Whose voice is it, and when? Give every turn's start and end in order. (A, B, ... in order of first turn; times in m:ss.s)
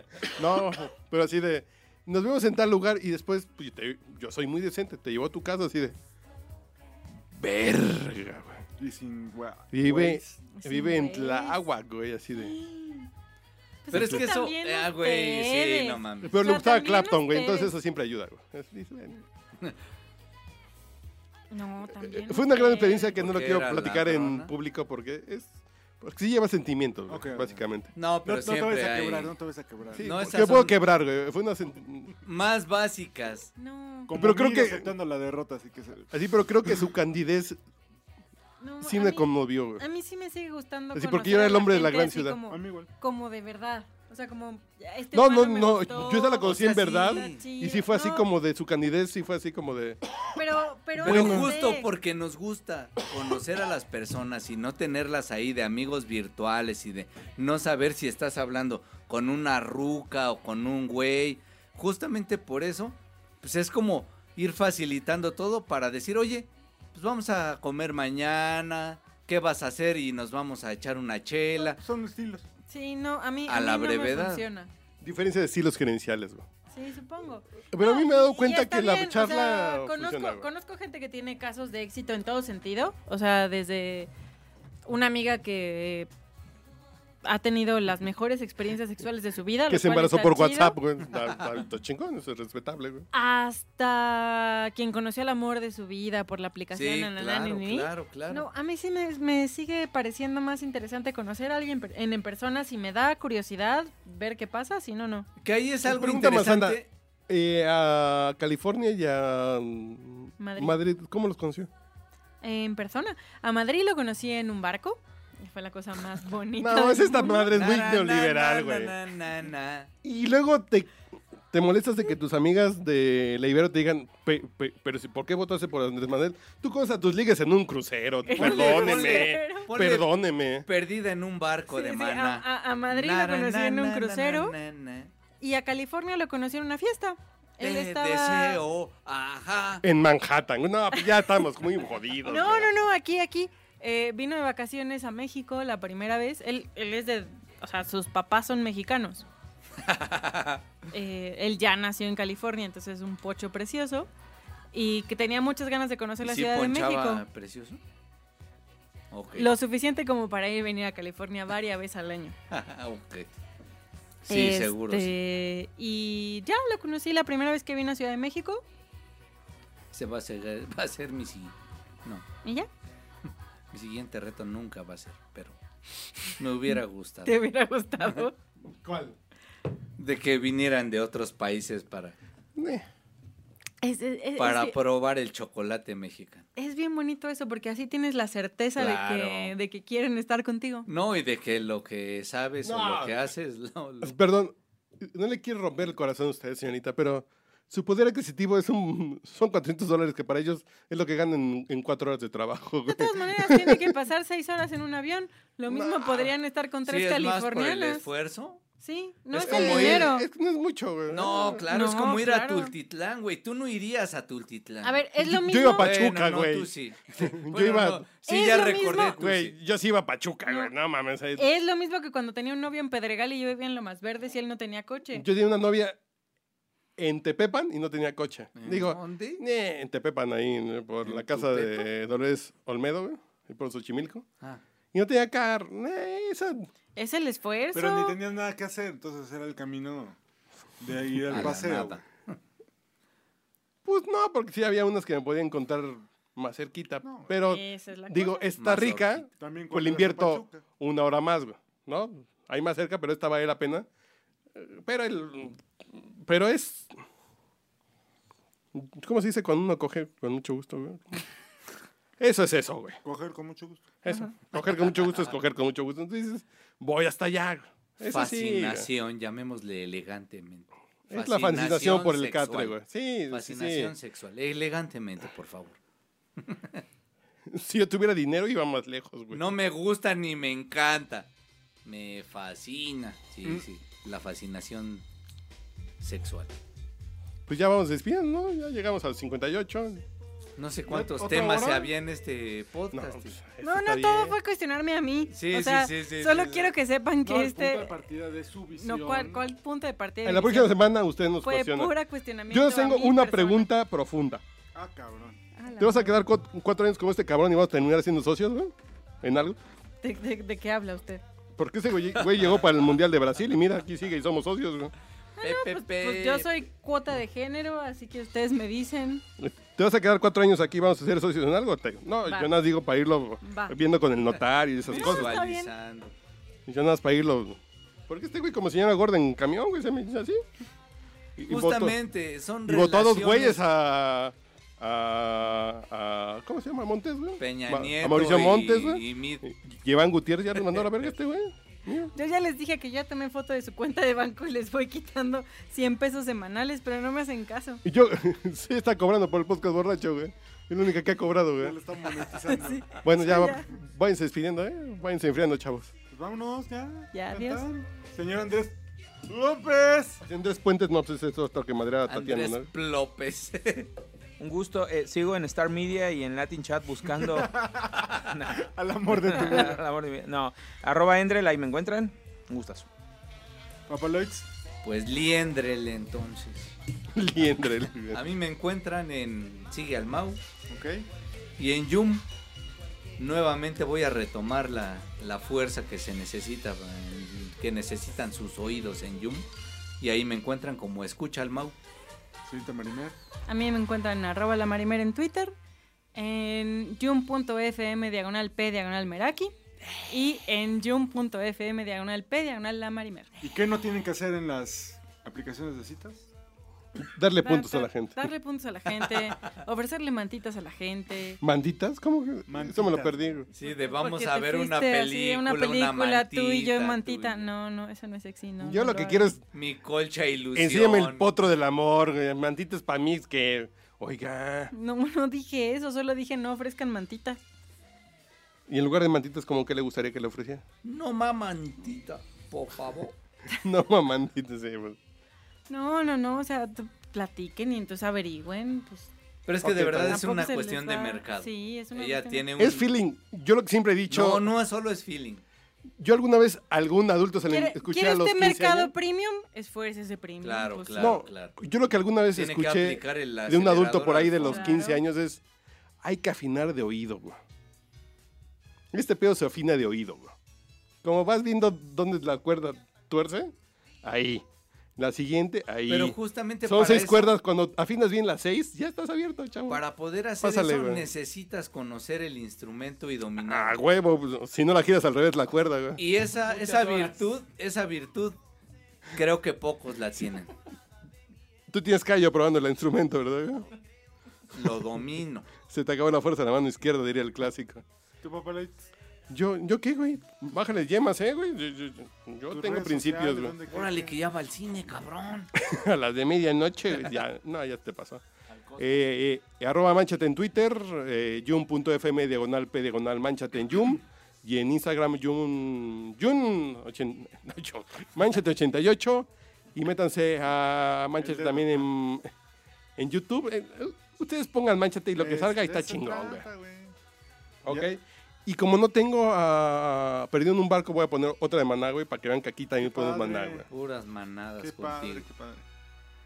0:00.2-0:05.9 A
0:07.4-0:08.6 A
0:08.8-0:10.4 B
0:09.7-0:12.5 A
0:10.5-0:11.6 C
0:12.3-0:13.1 C
0:13.8-0:17.7 C
0:13.9-0:16.4 D
0:16.2-0:19.2 A
0:21.5-0:23.2 C
0:22.0-0:27.9 A
0:23.2-0:24.5 D
0:27.1-0:27.6 B
0:28.0-0:29.3 D
0:28.2-0:30.3 B
0:29.9-0:32.1 A
0:30.0-0:30.8 D
0:32.2-0:33.5 D
0:33.6-0:34.1 C
0:34.1-0:36.1 B
0:34.1-0:34.9 A
0:36.1-0:37.6 A
0:38.6-0:48.2 C
0:38.8-0:39.8 A
0:40.9-0:42.4 A
0:42.5-0:42.9 B
0:45.1-0:50.0 A
0:46.4-0:47.4 D
0:50.3-0:51.9 C
0:51.0-0:51.5 A
0:51.0-1:11.8 D
1:11.6-1:12.4 B
1:12.7-1:14.7 C
1:13.5-1:14.5 D
1:15.0-1:16.4 A
1:16.7-1:24.1 C
1:17.7-1:20.5 A
1:24.8-1:26.1 C
1:27.2-1:30.8 C
1:29.7-1:33.1 A
1:33.1-1:45.3 C
1:36.7-1:38.5 D
1:45.4-1:46.9 D
1:45.8-1:51.7 A
1:50.4-1:50.8 C
1:52.4-1:57.5 C
1:56.6-1:58.9 A
1:57.5-1:59.9 D
2:00.0-2:01.0 A
2:01.5-2:10.6 A
2:08.2-2:09.7 C
2:08.3-2:10.1 D
2:10.6-2:15.1 D
2:11.7-2:14.5 C
2:15.4-2:18.6 C
2:17.6-2:19.8 D
2:19.8-2:22.7 A
2:22.2-2:29.2 C
2:29.8-2:30.6 D
2:30.9-2:34.1 C
2:34.7-2:37.2 C
2:36.2-2:37.8 D
2:39.1-2:39.5 D
2:39.3-2:42.3 C
2:42.5-2:43.3 D
2:44.3-2:45.1 D
2:44.3-2:48.6 C
2:49.9-2:51.5 D
2:52.4-2:52.7 C
2:53.7-2:55.6 D
2:56.4-2:57.4 D
2:57.2-2:58.3 C
2:58.7-2:59.1 A
3:00.0-3:02.1 D
3:02.6-3:02.8 A
3:03.8-3:04.8 C
3:04.4-3:06.4 D
3:06.6-3:10.9 C
3:08.8-3:09.5 D
3:10.8-3:14.1 D
3:12.6-3:13.2 A
3:14.0-3:23.9 A
3:22.9-3:28.0 C
3:25.7-3:26.3 A
3:26.8-3:28.6 D
3:28.8-3:30.2 C
3:29.3-3:30.1 D
3:29.4-3:31.6 A
3:31.1-3:35.0 D
3:31.7-3:32.7 C
3:34.8-3:36.0 C
3:35.2-3:38.0 A
3:35.8-3:39.5 D
3:38.3-3:39.2 C
3:39.2-3:41.4 A
3:41.4-3:45.2 C
3:45.1-3:46.0 A
3:47.0-3:54.2 A
3:48.6-3:49.4 D
3:51.0-3:51.9 D
3:54.9-3:56.7 A
3:57.0-3:58.2 C
3:57.7-4:00.2 B
4:00.8-4:02.0 B
4:01.3-4:02.4 D
4:03.8-4:13.8 A
4:07.0-4:07.3 B
4:07.4-4:08.5 C
4:08.6-4:09.3 D
4:09.4-4:10.6 B
4:14.6-4:17.0 A
4:18.7-4:21.2 A
4:22.2-4:23.0 A
4:23.0-4:23.9 B
4:24.0-4:28.9 A
4:28.1-4:32.8 D
4:31.1-4:33.9 A
4:33.3-4:35.8 D
4:36.4-4:36.8 D
4:37.5-4:39.5 A
4:39.3-4:41.3 D
4:41.8-4:45.0 D
4:46.0-4:46.5 D
4:47.5-4:50.0 A
4:50.6-4:53.3 D
4:50.9-4:51.9 B
4:52.9-4:54.3 A
4:53.6-4:57.9 C
4:55.3-4:56.7 D
4:57.2-4:59.4 B
4:58.8-5:00.8 C
5:00.2-5:01.9 A
5:01.4-5:03.7 C
5:02.5-5:04.4 A
5:04.7-5:05.4 B
5:05.6-5:06.2 C
5:05.8-5:09.6 A
5:10.0-5:11.2 C
5:11.6-5:14.9 A
5:15.4-5:19.2 C
5:15.4-5:16.5 D
5:19.4-5:25.4 A
5:22.2-5:22.6 C
5:23.4-5:23.8 C
5:24.8-5:26.1 D
5:24.9-5:25.7 C
5:26.7-5:30.4 A
5:31.4-5:32.0 A
5:31.5-5:33.6 D
5:32.7-5:42.1 A
5:37.4-5:39.4 D
5:40.6-5:40.8 D
5:42.1-5:47.8 C
5:47.8-5:51.8 A
5:51.6-5:53.6 B
5:52.6-5:53.6 C
5:53.0-5:55.9 A
5:56.1-6:00.2 B
5:57.1-5:57.6 C
6:00.3-6:02.7 A
6:02.1-6:03.9 D
6:04.4-6:07.5 E
6:07.2-6:08.0 B
6:08.3-6:12.9 E
6:08.6-6:09.8 B
6:13.9-6:14.4 B
6:14.8-6:16.7 D
6:17.2-6:18.2 A
6:18.1-6:20.4 D
6:20.7-6:21.1 B
6:21.6-6:22.2 D
6:23.2-6:29.4 D
6:30.0-6:31.7 D
6:32.4-6:33.2 B
6:33.5-6:35.5 C
6:36.1-6:39.5 C
6:40.1-6:43.3 C
6:43.4-6:46.3 B
6:47.0-6:48.3 A
6:47.4-6:51.4 C
6:51.4-6:53.5 A
6:52.5-6:53.4 B
6:53.5-6:57.4 D
6:53.6-6:59.3 C
6:58.6-6:59.4 A
6:59.5-7:01.3 D
7:00.6-7:04.7 A
7:04.7-7:07.4 C
7:08.7-7:10.6 A
7:10.8-7:13.2 D
7:13.6-7:15.0 A
7:15.7-7:19.1 C
7:19.4-7:22.9 D
7:19.6-7:20.3 A
7:20.0-7:22.4 C
7:22.6-7:24.5 A
7:24.1-7:25.4 D
7:26.0-7:28.9 A
7:27.5-7:31.1 C
7:30.4-7:31.6 D
7:31.0-7:35.4 A
7:32.3-7:34.8 D
7:34.4-7:35.0 C
7:36.0-7:37.4 A
7:38.9-7:40.3 A
7:41.0-7:44.4 A
7:45.0-7:49.8 A
7:45.9-7:47.4 D
7:49.7-7:53.8 D
7:50.4-7:51.1 A
7:53.4-7:56.0 A
7:56.0-7:58.4 D
7:56.4-7:57.2 E
7:59.1-8:00.5 D
8:01.7-8:03.6 A
8:04.5-8:05.5 D
8:05.6-8:07.8 A
8:08.2-8:08.9 B
8:09.3-8:13.5 A
8:12.5-8:14.2 B
8:13.7-8:15.5 D
8:15.6-8:18.2 A
8:18.8-8:32.3 A
8:31.2-8:31.9 B
8:33.0-8:36.4 A
8:35.1-8:36.9 B
8:37.6-8:43.7 A
8:42.8-8:43.7 B
8:43.7-8:45.2 D
8:44.6-8:45.6 B